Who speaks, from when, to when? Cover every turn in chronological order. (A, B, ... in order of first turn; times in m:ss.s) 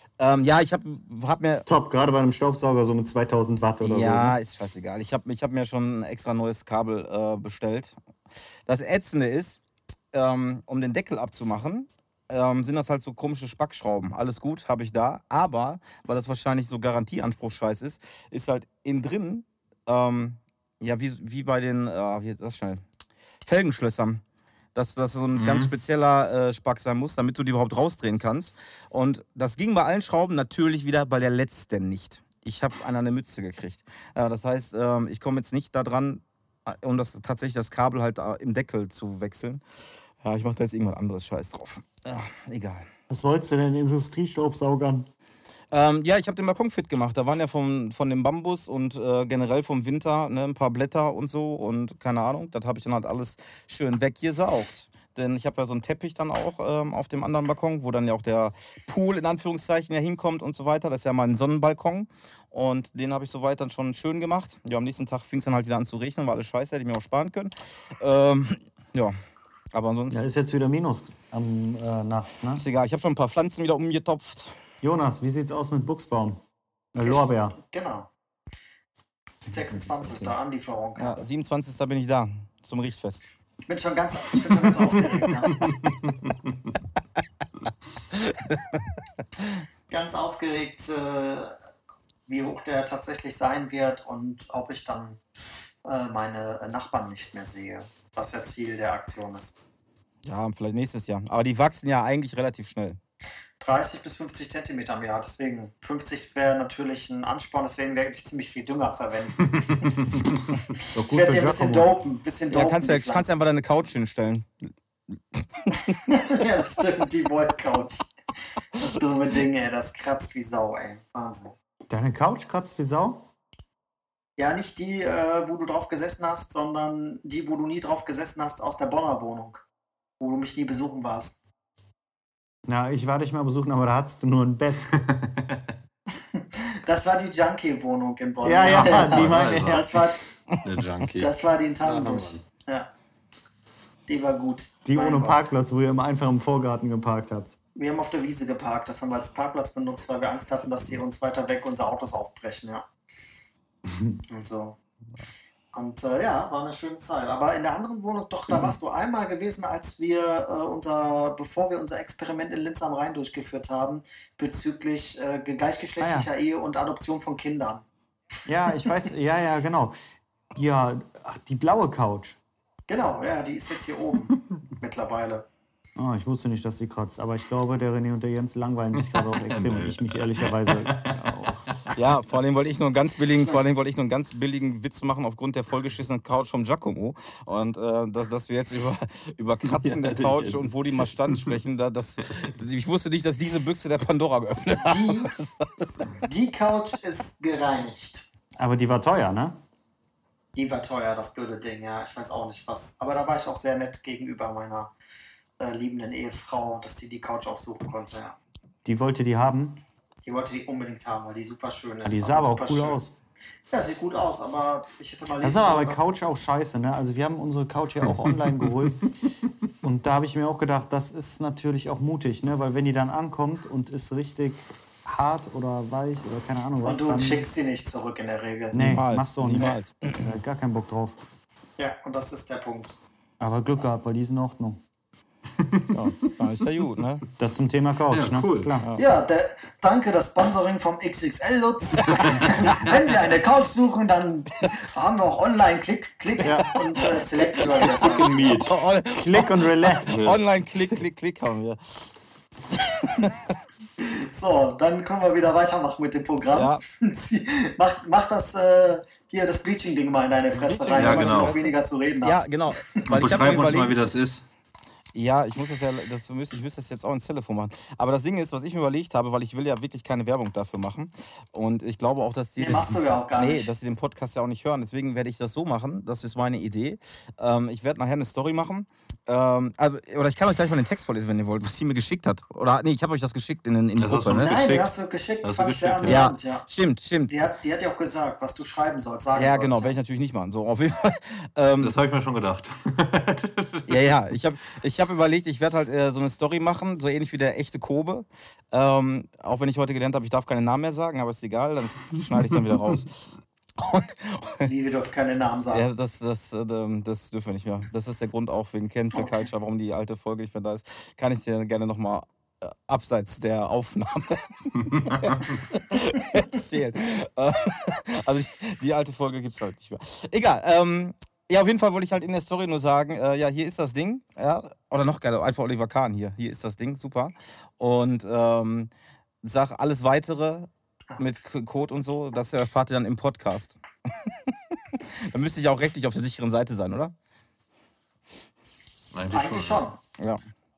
0:00.2-0:01.6 A
0:01.5-0:04.4 B
0:03.8-0:08.0 A
0:08.6-0:09.6 A
0:10.1-0:22.8 A
0:23.4-0:24.2 A
0:24.7-0:39.6 A
0:25.4-0:25.7 C
0:40.2-0:42.9 A
0:43.1-0:45.1 B
0:45.7-1:09.1 A
1:09.7-1:10.2 A
1:10.1-1:12.6 B
1:12.6-1:14.5 A
1:14.8-1:16.4 B
1:16.9-1:17.6 B
1:17.0-1:18.1 D
1:19.4-1:20.4 B
1:19.5-1:21.2 D
1:21.0-1:23.2 A
1:23.7-1:25.6 D
1:25.6-1:26.5 C
1:28.1-1:28.8 A
1:29.9-1:31.6 D
1:32.3-1:35.2 D
1:35.8-1:39.6 D
1:40.2-1:43.0 A
1:43.6-1:50.1 D
1:50.9-1:51.9 B
1:51.1-1:53.3 D
1:52.5-1:54.5 A
1:55.3-1:56.0 A
1:56.0-1:58.1 D
1:58.7-2:01.5 D
2:01.9-2:03.3 B
2:04.4-2:09.6 D
2:10.2-2:11.4 D
2:12.7-2:15.0 B
2:15.0-2:15.6 C
2:16.3-2:20.2 D
2:18.4-2:19.9 B
2:18.6-2:20.0 C
2:20.6-2:22.4 C
2:21.2-2:22.9 D
2:24.1-2:25.5 D
2:24.8-2:27.5 B
2:27.7-2:32.9 D
2:33.9-2:34.2 B
2:34.3-2:34.8 D
2:35.7-2:47.8 D
2:46.0-2:46.3 B
2:48.5-2:50.0 B
2:50.5-2:52.4 B
2:52.9-2:55.5 D
2:56.0-3:01.7 B
2:59.1-3:01.2 C
3:01.9-3:16.1 A
3:09.6-3:10.7 C
3:11.3-3:11.5 C
3:14.8-3:15.3 D
3:16.2-3:18.3 D
3:18.6-3:19.6 B
3:20.5-3:24.9 D
3:25.6-3:28.4 D
3:28.8-3:29.8 B
3:30.2-3:33.0 D
3:32.0-3:33.1 B
3:33.7-3:36.0 D
3:35.4-3:39.1 B
3:39.8-3:47.5 B
3:46.8-3:48.8 D
3:48.7-3:51.2 B
3:48.7-3:50.3 A
3:51.8-3:53.0 D
3:53.4-3:54.8 B
3:55.6-3:55.8 C
3:56.3-3:57.2 A
3:57.4-3:58.9 B
3:58.1-3:58.7 C
3:58.8-3:59.1 A
3:59.0-4:08.5 D
4:02.3-4:02.8 C
4:06.4-4:06.7 B
4:07.0-4:12.1 A
4:08.0-4:08.7 C
4:09.1-4:10.2 B
4:10.0-4:10.4 C
4:12.7-4:13.5 A
4:14.0-4:23.6 D
4:16.5-4:16.8 A
4:20.5-4:24.0 A
4:20.9-4:21.5 C
4:23.0-4:24.4 C
4:25.1-4:44.6 A
4:32.6-4:33.7 D
4:44.0-4:46.3 C
4:44.4-4:46.6 D
4:46.0-4:47.3 A
4:47.3-4:50.0 D
4:49.3-4:51.9 A
4:51.8-4:54.1 C
4:53.9-5:03.2 A
5:03.8-5:04.7 A
5:04.6-5:05.9 D
5:05.7-5:28.9 A
5:29.4-5:37.1 A
5:39.1-5:39.8 C
5:39.3-5:40.0 D